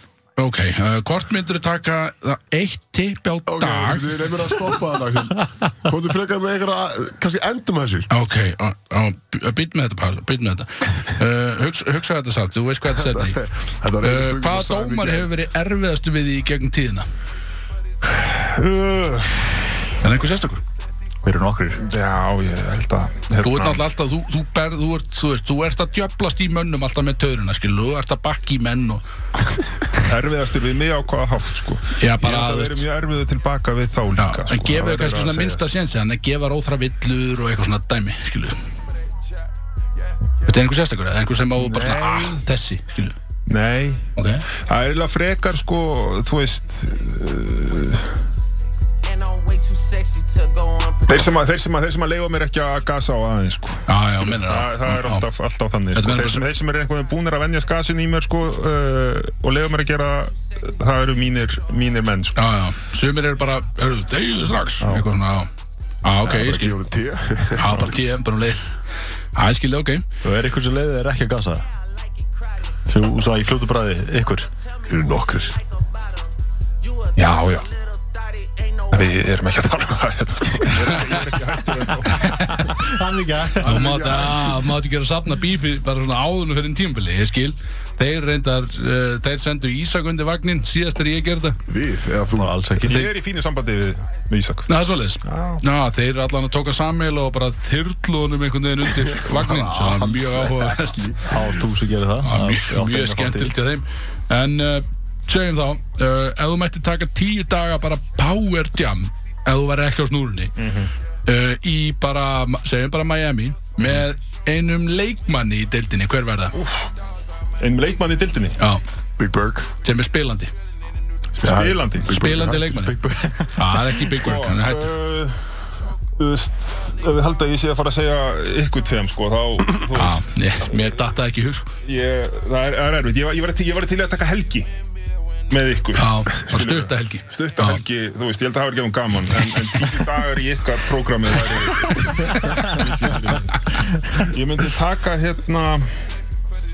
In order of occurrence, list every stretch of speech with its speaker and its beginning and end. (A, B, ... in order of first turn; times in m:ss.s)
0:00.4-0:04.3 A
0:03.5-0:08.1 B
0:08.1-0:13.4 A
0:12.9-0:15.3 B
0:14.0-0:17.1 A
0:18.0-0:19.7 C
0:20.0-0:20.6 A
0:21.2-0:21.8 D
0:21.8-0:23.8 C
0:23.4-0:29.0 A
0:30.0-0:35.6 C
0:32.0-0:32.9 A
0:34.2-0:38.6 A
0:40.4-0:43.1 A
0:41.6-0:42.4 C
0:43.5-0:44.1 C
0:44.2-0:44.4 A
0:44.6-0:48.2 C
0:49.0-0:51.4 E
0:51.1-1:02.4 C
0:53.9-0:55.3 A
0:55.9-0:56.4 A
1:02.3-1:05.5 A
1:04.8-1:05.1 C
1:06.0-1:06.8 A
1:06.2-1:07.9 B
1:07.6-1:08.7 A
1:09.4-1:10.0 A
1:10.2-1:11.7 D
1:12.8-1:14.5 D
1:14.9-1:15.6 B
1:17.2-1:17.7 C
1:17.8-1:19.1 E
1:18.9-1:22.8 C
1:20.7-1:21.1 A
1:22.1-1:22.7 A
1:22.8-1:23.7 D
1:23.6-1:24.7 B
1:23.6-1:31.6 A
1:31.7-1:32.5 B
1:32.4-1:33.1 D
1:32.8-1:34.7 C
1:34.7-1:41.1 A
1:35.2-1:35.6 C
1:39.0-1:41.5 B
1:41.3-1:43.5 D
1:42.2-1:50.6 A
1:50.6-1:50.9 C
1:51.2-1:56.6 A
1:53.8-1:54.0 C
1:56.5-1:56.9 C
1:57.6-1:58.6 C
1:59.2-1:59.7 B
1:59.8-2:00.5 A
2:01.4-2:02.1 C
2:01.4-2:02.8 B
2:02.0-2:02.9 A
2:02.3-2:04.0 D
2:03.5-2:04.9 A
2:04.0-2:05.6 C
2:06.2-2:10.8 C
2:10.0-2:11.7 A
2:11.8-2:14.7 C
2:15.5-2:26.0 C
2:15.9-2:17.8 A